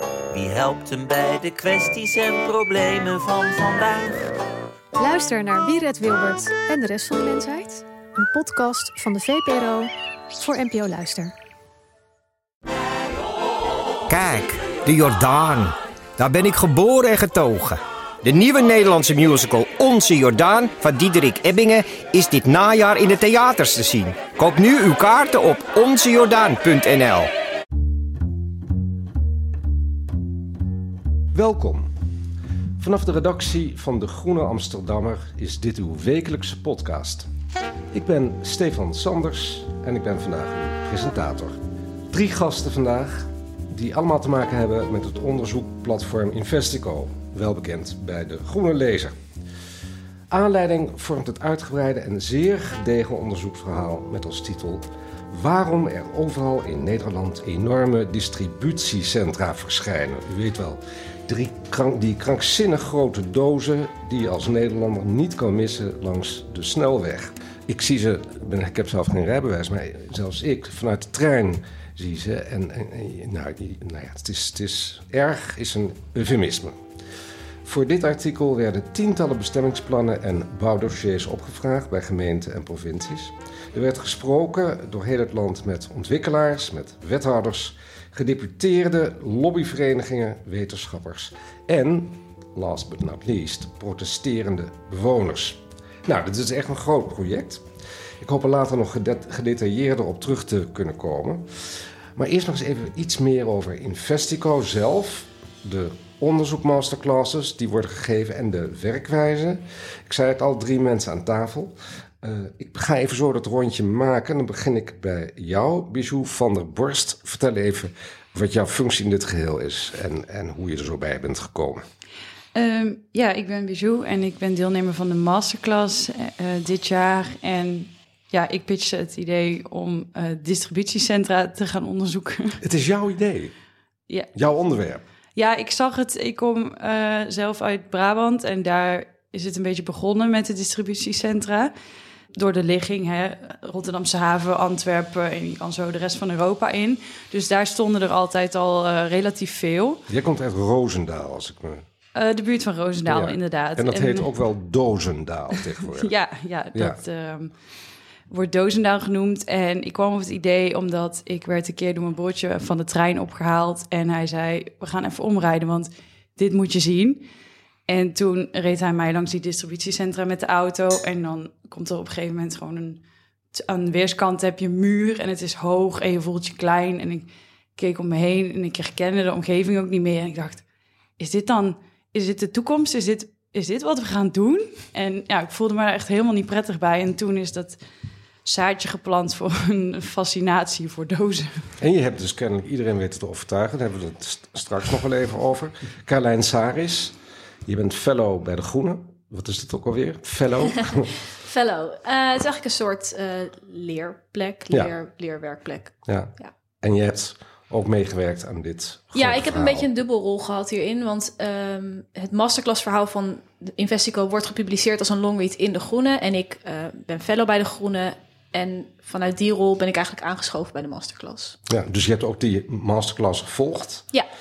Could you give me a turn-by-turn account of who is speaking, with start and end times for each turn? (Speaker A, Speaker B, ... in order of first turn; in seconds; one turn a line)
Speaker A: 0.3-4.3
Speaker B: 5.0-11.3
Speaker C: 14.1-27.3
Speaker D: 31.3-31.9
Speaker D: 32.8-37.3
Speaker D: 37.9-49.2
Speaker D: 50.3-76.8
Speaker D: 77.7-97.7
Speaker D: 98.2-101.5
Speaker D: 102.2-121.8
Speaker E: 122.5-132.6
Speaker D: 132.6-133.5
Speaker D: 134.3-135.0
Speaker E: 135.4-141.7
Speaker E: 142.3-150.1
Speaker D: 150.1-151.8
Speaker E: 152.2-154.3
Speaker D: 153.0-156.1
Speaker E: 155.9-157.5
Speaker E: 158.3-167.3
Speaker E: 167.9-173.0
Speaker E: 173.5-180.6
Speaker E: 181.2-187.8
Speaker E: 188.4-191.7
Speaker D: 191.8-201.1
Speaker F: 201.4-206.5
Speaker D: 206.1-209.9
Speaker F: 209.2-221.6
Speaker D: 221.7-224.1